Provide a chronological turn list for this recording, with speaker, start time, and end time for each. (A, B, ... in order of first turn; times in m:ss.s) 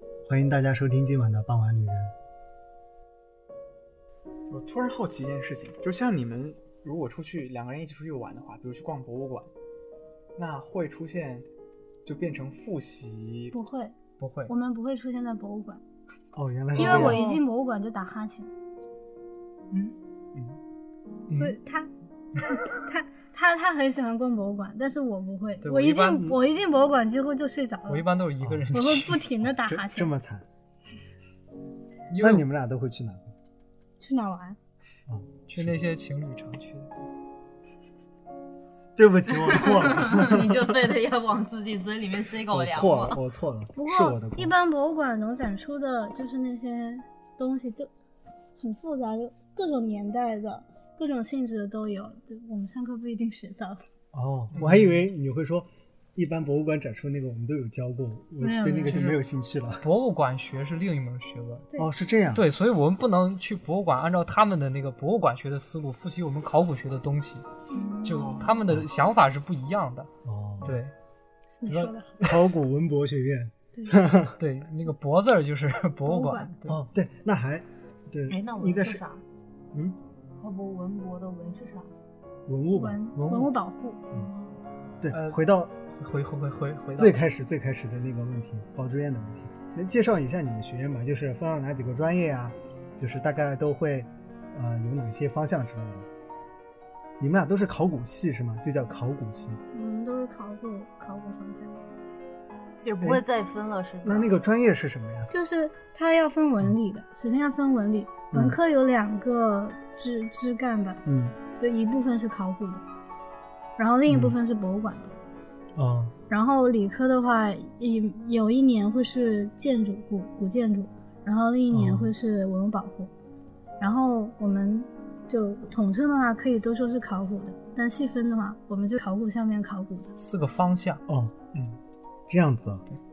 0:00.2-0:02.1 A
0:04.5-0:09.5 B
0:10.4-0:11.5 B
0:12.0-0:13.6 B
0:13.5-0:14.0 C
0:14.2-0:14.5 D
0:14.5-0:15.8 C
0:16.3-0:17.3 A
0:16.8-0:18.5 C
0:19.8-0:20.6 B
0:21.3-0:21.6 D
0:21.3-0:21.9 C
0:22.5-0:28.1 C
0:25.6-0:26.4 D
0:27.9-0:29.3 D
0:28.4-0:28.6 A
0:28.7-0:30.1 C
0:29.4-0:30.5 A
0:32.1-0:32.4 D
0:32.2-0:33.3 A
0:34.0-0:34.6 C
0:35.1-0:35.8 A
0:35.5-0:37.1 D
0:39.0-0:40.9 A
0:39.5-0:43.2 E
0:42.5-0:44.5 A
0:43.8-0:47.9 C
0:48.6-0:53.8 C
0:54.1-0:59.9 A
0:54.5-0:54.8 B
0:54.6-0:54.9 D
0:58.4-0:59.1 C
0:58.9-0:59.2 D
0:59.8-1:01.7 D
1:01.8-1:02.5 A
1:02.3-1:07.5 D
1:07.7-1:08.5 C
1:07.7-1:08.5 E
1:08.0-1:10.1 D
1:10.2-1:10.8 A
1:10.6-1:10.9 D
1:11.6-1:12.2 C
1:11.7-1:12.3 D
1:12.2-1:14.4 A
1:13.7-1:14.0 C
1:14.4-1:16.8 D
1:16.1-1:16.5 C
1:16.7-1:19.0 A
1:18.3-1:19.2 E
1:20.4-1:21.9 E
1:22.5-1:23.0 A
1:22.7-1:24.0 C
1:23.2-1:23.5 D
1:24.1-1:24.6 E
1:25.0-1:25.7 A
1:25.1-1:25.4 D
1:26.0-1:27.2 D
1:27.0-1:36.1 A
1:37.2-1:39.6 A
1:39.7-1:41.8 C
1:42.8-1:44.4 E
1:44.0-1:45.3 A
1:45.3-1:51.0 C
1:48.3-1:48.6 A
1:51.0-1:51.4 A
1:51.6-1:52.8 C
1:53.8-1:55.2 C
1:54.1-1:54.4 A
1:55.8-1:56.2 A
1:56.3-2:03.1 C
2:01.7-2:02.1 A
2:03.8-2:10.2 C
2:10.2-2:11.0 D
2:11.1-2:11.4 A
2:12.3-2:12.8 A